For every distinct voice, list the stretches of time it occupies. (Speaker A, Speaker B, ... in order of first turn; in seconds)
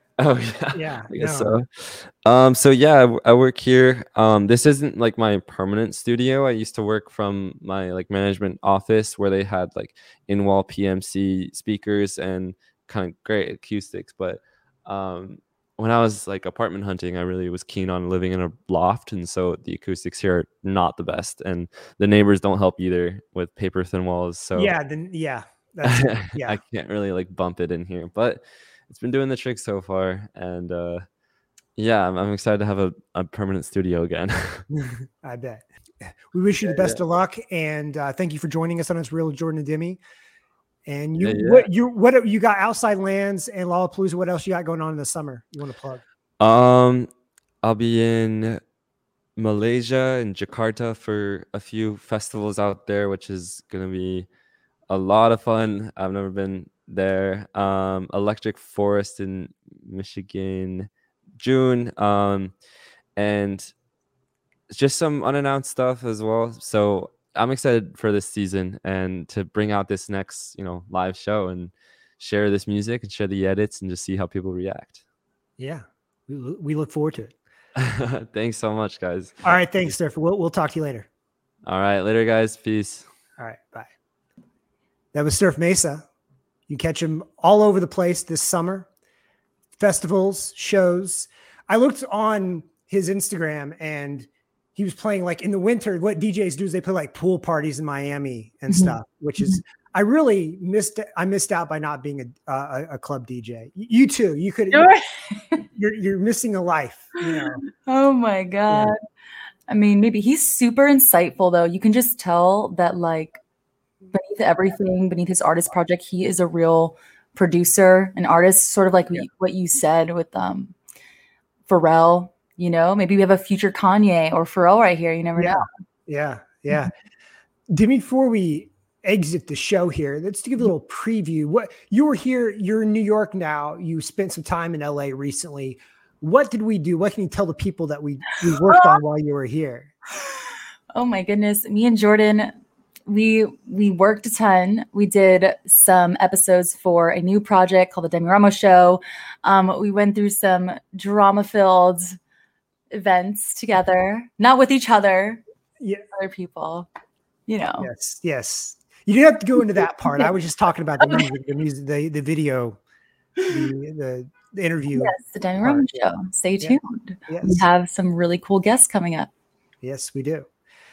Speaker A: 0.2-24.7, 25.8-31.0, 31.8-34.6, 36.6-37.0, 41.2-41.7, 46.4-47.1, 47.6-48.6, 49.4-54.3, 54.9-62.5, 63.2-63.7, 64.7-75.0, 77.8-79.6, 81.7-83.1
Speaker B: 0.7-1.5, 24.5-26.6, 34.7-40.0, 40.9-46.0, 75.6-77.3, 79.4-81.1, 83.4-83.9, 85.1-86.0, 86.7-88.9, 89.8-104.9, 105.7-107.6, 108.7-108.9, 125.4-126.9, 127.7-139.9, 155.8-156.1, 157.8-162.8, 163.5-165.9, 166.6-167.6, 169.8-170.5
Speaker C: 98.7-99.6, 104.7-105.6, 107.8-109.0, 109.7-113.4, 114.1-120.7, 121.7-125.7, 138.7-139.0, 140.9-142.5, 143.1-152.2, 152.9-155.4, 156.1-156.9, 157.5-157.9, 164.9-169.3